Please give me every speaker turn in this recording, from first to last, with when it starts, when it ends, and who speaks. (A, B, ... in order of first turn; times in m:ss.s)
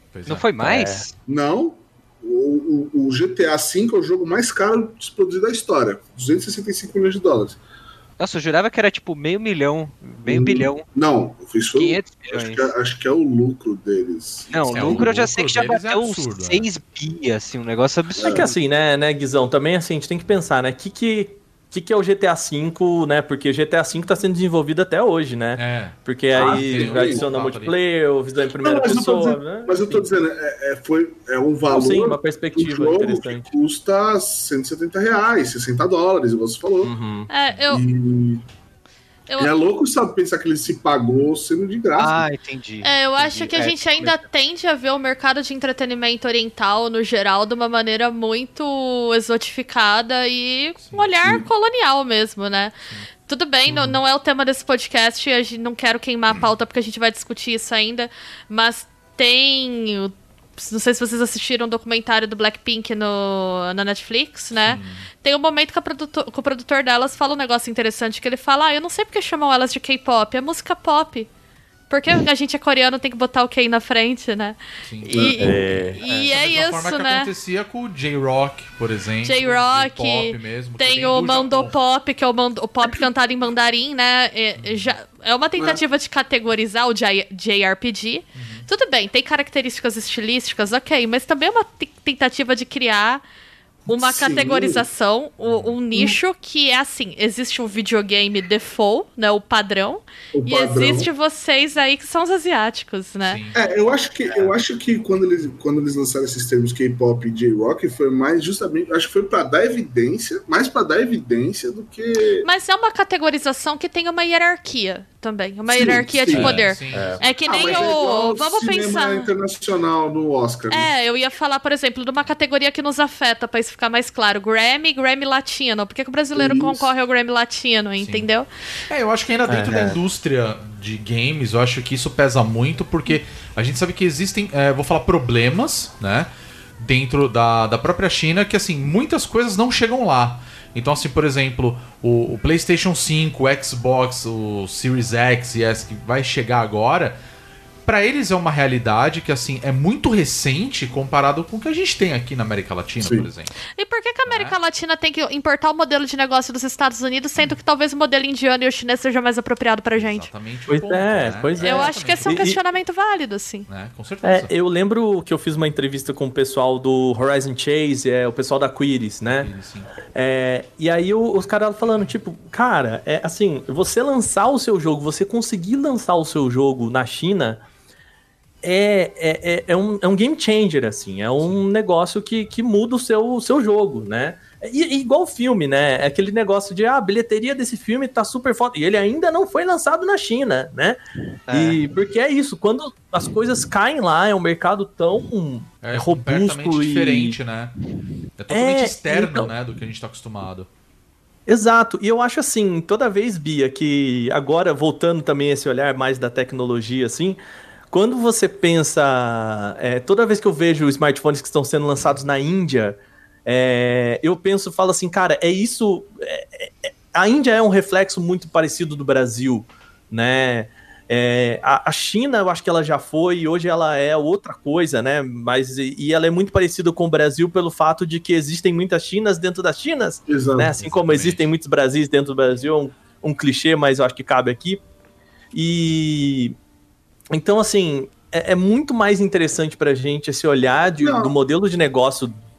0:00.1-0:00.5 A
0:00.3-0:01.1 B
0:00.6-0:01.1 C
0:01.3-0:07.6 D
0:08.2-0:10.9 B
0:10.3-0:15.1 D
0:11.7-0:12.7 B
0:14.5-0:18.6 B
0:14.7-0:16.7 A
0:18.2-0:18.5 D
0:18.2-0:30.1 C
0:25.6-0:27.8 A
0:26.3-0:27.3 D
0:28.6-0:36.9 D
0:31.7-0:33.5 C
0:36.8-0:37.3 C
0:37.3-0:37.8 E
0:37.7-0:38.4 D
0:39.3-0:39.5 E
0:39.4-0:42.3 D
0:42.0-0:42.9 B
0:42.8-0:52.8 E
0:43.2-0:44.2 D
0:50.8-0:51.1 A
0:53.3-1:11.3 E
0:53.7-0:54.0 A
1:04.6-1:05.1 A
1:11.9-1:17.3 E
1:14.8-1:15.2 A
1:15.1-1:15.4 D
1:15.4-1:16.3 C
1:15.7-1:21.8 A
1:19.2-1:33.2 E
1:24.6-1:25.0 A
1:28.4-1:28.7 A
1:33.9-1:34.9 D
1:33.9-1:43.4 E
1:35.5-1:35.8 A
1:40.4-1:41.1 D
1:43.2-1:43.6 A
1:43.5-1:52.5 D
1:52.4-1:59.3 E
1:55.7-1:56.6 D
1:56.3-1:57.8 A
1:56.9-1:57.2 C
1:57.4-2:00.9 D
2:00.7-2:08.5 E
2:06.4-2:06.9 D
2:08.0-2:08.3 A
2:08.9-2:27.2 A
2:09.5-2:10.0 C
2:27.8-2:33.5 A
2:33.0-2:33.3 D
2:33.7-2:40.3 E
2:34.3-2:34.6 A
2:40.0-2:42.5 A
2:40.7-2:42.6 C
2:41.6-2:43.7 E
2:43.7-2:44.5 A
2:44.2-2:49.5 C
2:49.3-2:49.9 A
2:50.1-2:57.6 C
2:58.6-3:11.0 C
3:11.5-3:11.8 B
3:11.5-3:17.4 C
3:15.8-3:17.7 A
3:18.4-3:20.7 A
3:18.5-3:19.5 C
3:21.5-3:27.4 C
3:27.9-3:54.8 C
3:50.3-3:50.8 D
3:50.8-3:51.5 A
3:55.5-3:56.6 C
3:57.3-4:02.4 C
4:01.0-4:01.4 D